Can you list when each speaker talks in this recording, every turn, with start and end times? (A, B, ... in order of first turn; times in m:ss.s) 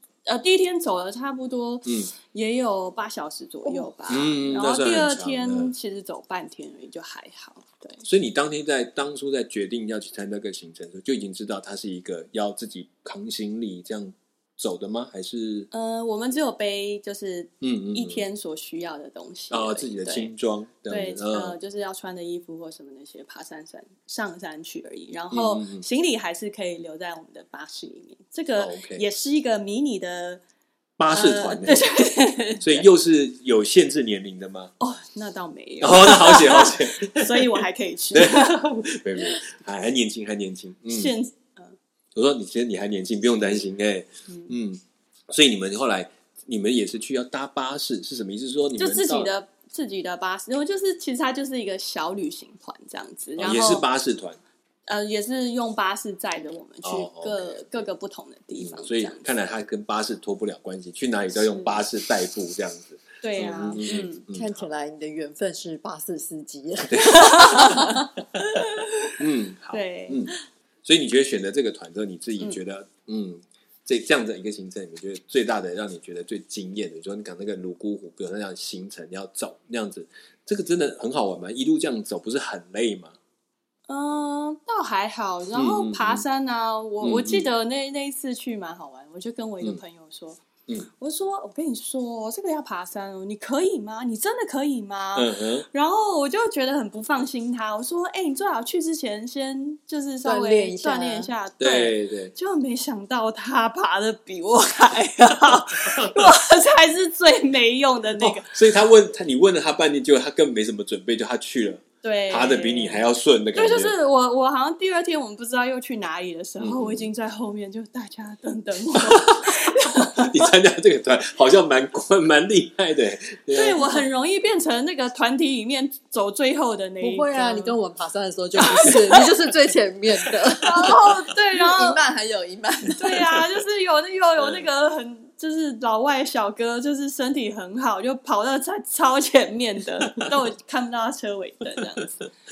0:00.3-0:08.0 A
0:01.9-0:02.1 B
0:04.1-0:05.8 B
0:08.0-0:15.7 B
0:15.7-0:20.3 A
0:17.6-0:18.3 B
0:19.5-0:21.6 B
0:20.9-0:30.4 A
0:25.3-0:25.9 B
0:28.6-0:29.0 B
0:31.0-0:31.9 B
0:31.1-0:32.9 A
0:32.6-0:34.7 B
0:34.8-0:38.6 A
0:35.8-0:41.1 B
0:40.9-0:41.8 A
0:42.2-0:49.3 B
0:48.8-0:53.8 A
0:53.4-0:54.4 B
0:54.9-0:59.3 A
0:56.8-0:57.9 B
0:58.6-1:04.6 B
1:03.2-1:04.2 A
1:04.3-1:08.0 C
1:06.9-1:08.0 B
1:07.0-1:10.3 A
1:09.2-1:23.2 B
1:23.9-1:30.4 A
1:25.5-1:26.2 B
1:27.0-1:27.5 B
1:31.0-1:48.6 A
1:35.2-1:35.7 B
1:40.2-1:41.3 C
1:41.6-1:42.3 B
1:48.2-1:53.9 B
1:52.0-1:53.0 A
1:53.6-2:00.5 A
1:56.6-1:57.1 B
1:59.0-1:59.4 B
2:00.1-2:04.1 B
2:03.5-2:07.8 A
2:07.0-2:11.0 C
2:08.6-2:09.5 A
2:10.5-2:12.0 A
2:11.5-2:13.4 C
2:13.0-2:22.3 A
2:14.4-2:14.7 B